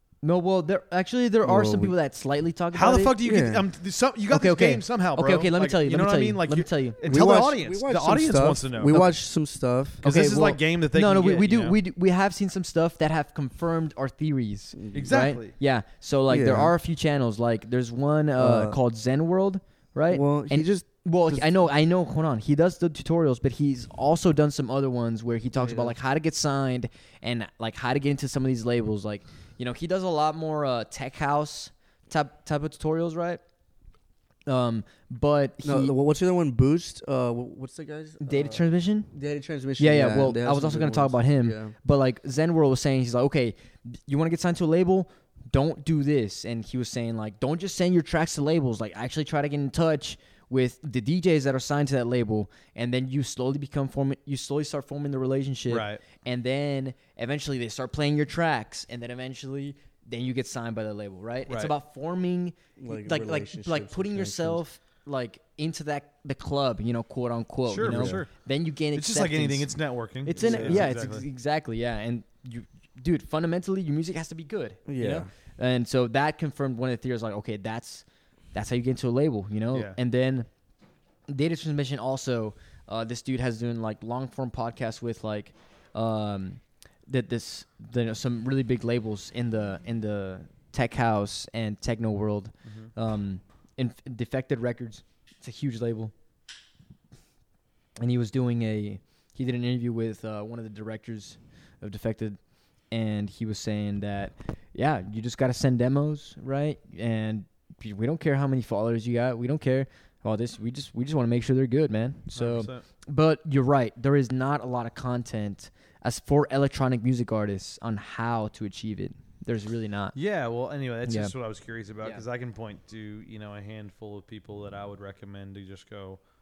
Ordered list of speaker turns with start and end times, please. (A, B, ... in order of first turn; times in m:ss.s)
0:00.2-0:03.2 A
0:01.4-0:01.9 B
0:02.7-0:09.1 C
0:03.2-0:03.6 B
0:04.3-0:07.0 A
0:07.0-0:10.0 B
0:10.0-0:33.4 A
0:10.0-0:11.8 C
0:14.7-0:15.2 B
0:14.9-0:15.5 C
0:16.3-0:16.7 B
0:18.4-0:18.8 B
0:20.1-0:21.5 B
0:25.6-0:26.0 B
0:34.5-0:35.9 A
0:35.6-0:41.7 B
0:38.2-0:39.1 A
0:39.8-1:09.7 A
0:55.7-0:56.0 C
1:01.5-1:01.7 C
1:02.8-1:04.6 B
1:07.6-1:08.3 C
1:07.8-1:08.2 B
1:08.9-1:11.2 C
1:10.2-1:20.5 A
1:10.4-1:10.9 B
1:14.9-1:15.3 B
1:19.7-1:20.0 C
1:21.3-1:36.1 A
1:32.6-1:32.9 C
1:38.0-1:42.4 A
1:42.9-2:00.2 A
1:52.3-1:52.8 C
2:00.1-2:06.2 C
2:01.0-2:01.3 A